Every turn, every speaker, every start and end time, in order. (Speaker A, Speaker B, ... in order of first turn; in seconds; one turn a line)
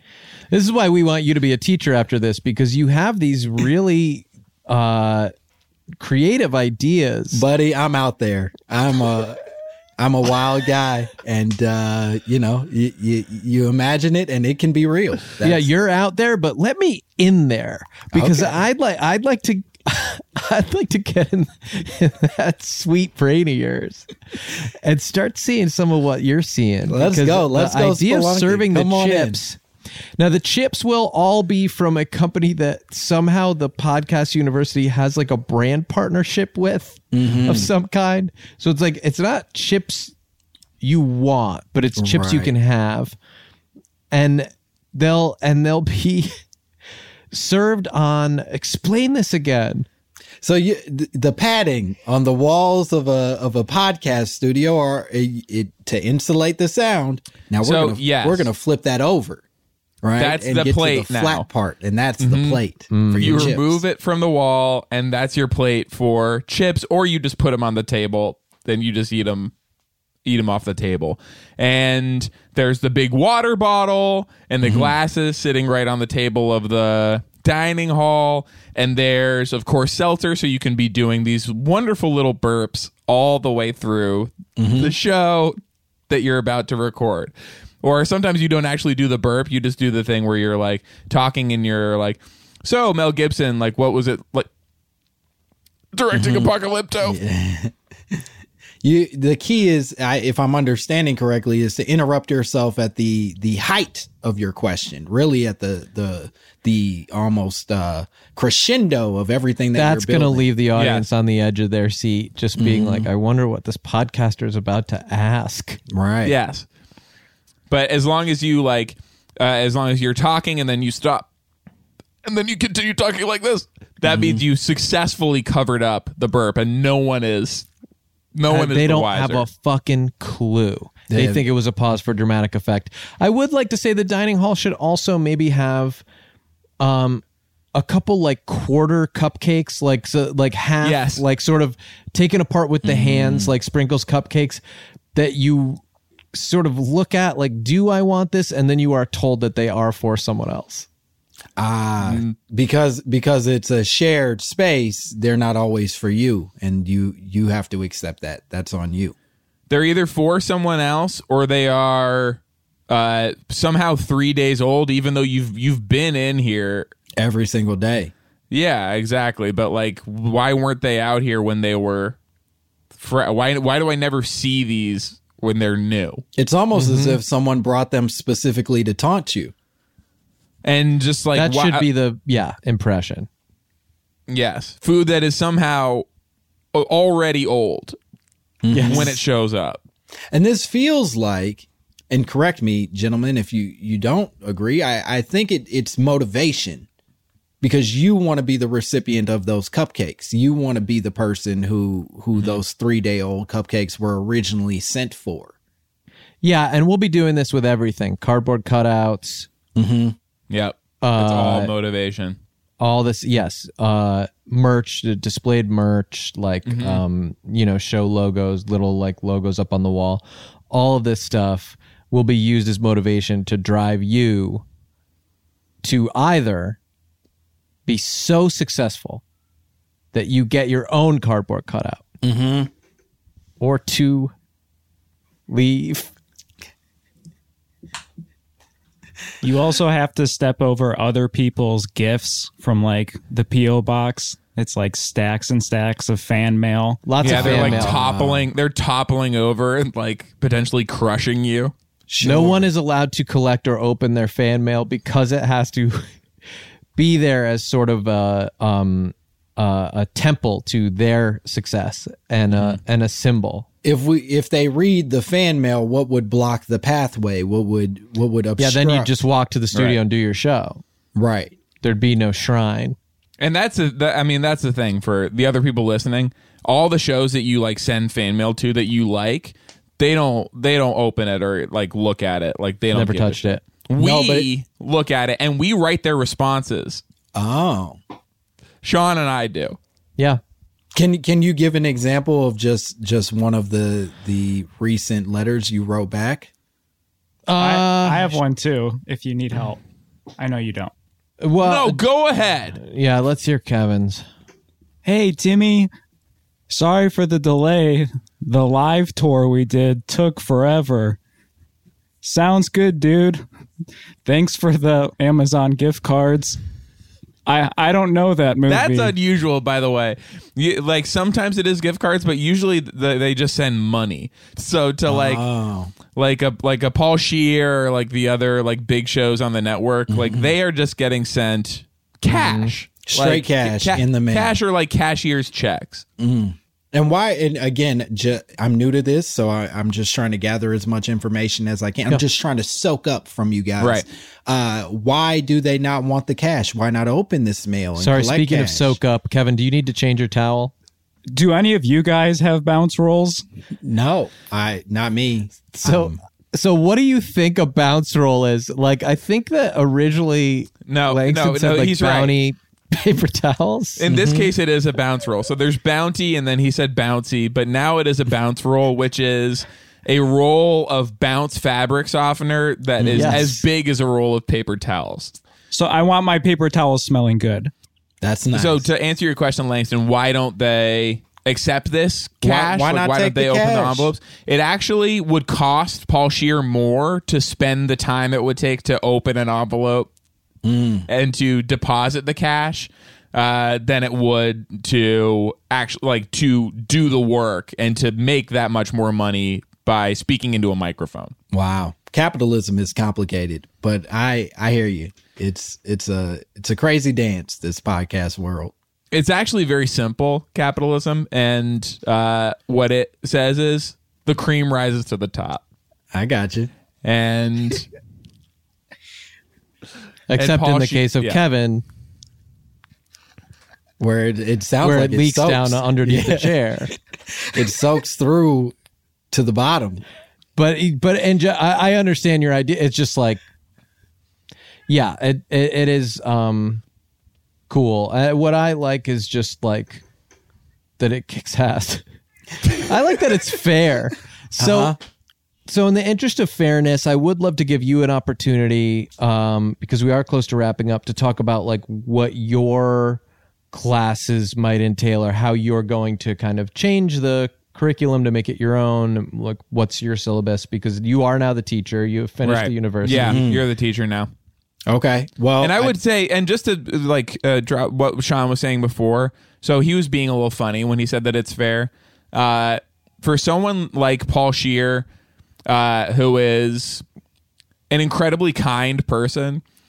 Speaker A: 0.5-5.3
Speaker A: 6.0-7.4
Speaker B: 7.3-9.4
Speaker B: 10.0-15.7
Speaker A: 15.4-29.6
Speaker B: 18.1-18.6
Speaker B: 26.9-29.4
Speaker A: 30.2-40.1
Speaker B: 37.1-37.7
Speaker A: 40.8-43.1
Speaker B: 42.0-42.5
Speaker A: 44.1-46.3
Speaker A: 47.3-49.9
Speaker B: 50.4-59.4
Speaker C: 57.6-58.5
Speaker B: 60.0-63.8
Speaker C: 60.2-61.5
Speaker C: 62.2-62.6
Speaker A: 62.9-63.5
Speaker C: 63.1-69.5
Speaker C: 70.2-85.5
Speaker B: 74.6-74.9
Speaker B: 84.6-84.9
Speaker C: 86.1-94.5
Speaker C: 95.9-97.2
Speaker B: 96.1-98.2
Speaker B: 98.8-110.5
Speaker A: 109.7-115.8
Speaker C: 110.7-111.0
Speaker B: 112.5-113.1
Speaker B: 115.9-116.3
Speaker C: 116.2-116.7
Speaker C: 117.7-121.3
Speaker C: 122.2-127.7
Speaker B: 124.1-124.4
Speaker C: 128.3-129.4
Speaker A: 128.5-136.0
Speaker B: 131.1-131.4
Speaker A: 136.8-137.2
Speaker A: 137.7-144.6
Speaker C: 140.8-141.2
Speaker B: 142.8-143.5
Speaker A: 145.1-145.8
Speaker A: 146.3-150.9
Speaker B: 151.6-159.2
Speaker C: 152.0-152.3
Speaker C: 159.7-166.9
Speaker B: 167.2-168.1
Speaker C: 168.5-172.2
Speaker C: 172.9-176.2
Speaker B: 176.3-179.5
Speaker A: 176.7-177.2
Speaker C: 180.6-181.9
Speaker A: 181.3-183.3
Speaker C: 184.3-186.1
Speaker C: 186.7-188.0
Speaker B: 188.6-189.2
Speaker A: 188.7-189.2
Speaker C: 188.8-189.8
Speaker B: 190.3-196.9
Speaker B: 197.6-205.5
Speaker A: 206.4-209.5
Speaker B: 209.8-210.2
Speaker C: 210.5-212.4
Speaker A: 211.0-211.7
Speaker A: 212.8-224.6
Speaker C: 216.7-217.0
Speaker A: 225.8-226.8
Speaker A: 227.8-229.2
Speaker A: 230.1-232.0
Speaker B: 232.2-232.7
Speaker A: 233.6-234.3
Speaker A: 235.5-236.1
Speaker D: 239.4-247.0
Speaker A: 247.1-248.0
Speaker B: 247.2-248.5
Speaker C: 247.2-251.7
Speaker B: 252.1-252.7
Speaker A: 252.2-256.1
Speaker A: 256.9-263.6
Speaker C: 262.5-262.8
Speaker B: 263.8-269.1
Speaker A: 268.6-270.8
Speaker B: 269.7-270.0
Speaker B: 271.1-271.6
Speaker A: 271.8-273.0
Speaker C: 273.4-287.0
Speaker A: 282.9-283.6
Speaker B: 284.0-284.5
Speaker B: 287.3-288.0
Speaker C: 288.8-289.8
Speaker B: 290.9-296.5
Speaker A: 297.5-298.4
Speaker D: 297.6-299.8
Speaker D: 300.4-300.9
Speaker A: 301.4-302.0
Speaker C: 301.6-302.8
Speaker A: 302.8-304.2
Speaker D: 305.0-305.9
Speaker D: 306.7-311.2
Speaker D: 312.2-313.4
Speaker D: 314.2-316.6
Speaker D: 317.4-319.1
Speaker C: 318.7-325.4
Speaker B: 325.1-325.9
Speaker C: 326.1-336.0
Speaker B: 330.1-330.5
Speaker A: 332.3-332.7
Speaker B: 333.0-334.6
Speaker B: 336.2-349.0
Speaker A: 348.0-350.7
Speaker D: 351.3-353.4
Speaker B: 353.8-356.2
Speaker A: 355.8-364.0
Speaker C: 360.9-362.4
Speaker C: 364.0-375.3
Speaker B: 364.1-364.5
Speaker B: 373.0-373.5
Speaker A: 373.1-373.6
Speaker D: 375.7-377.7
Speaker B: 378.2-378.9
Speaker C: 378.5-390.1
Speaker B: 382.4-384.1
Speaker B: 390.6-391.1
Speaker C: 391.1-401.3
Speaker B: 401.5-408.7
Speaker C: 409.1-415.6
Speaker B: 416.1-416.7
Speaker C: 417.0-417.9
Speaker A: 420.3-421.8
Speaker C: 420.3-421.4
Speaker B: 424.0-426.5
Speaker A: 424.8-426.9
Speaker B: 427.3-428.7
Speaker B: 429.3-430.0
Speaker A: 430.6-433.4
Speaker A: 434.9-436.8
Speaker A: 437.7-440.0
Speaker A: 441.0-442.0
Speaker A: 442.6-444.9
Speaker B: 444.6-445.0
Speaker A: 445.7-453.2
Speaker A: 453.7-463.4
Speaker C: 462.4-464.3
Speaker B: 463.1-463.6
Speaker B: 464.9-465.9
Speaker C: 465.6-475.1
Speaker C: 475.6-477.0
Speaker C: 477.9-479.6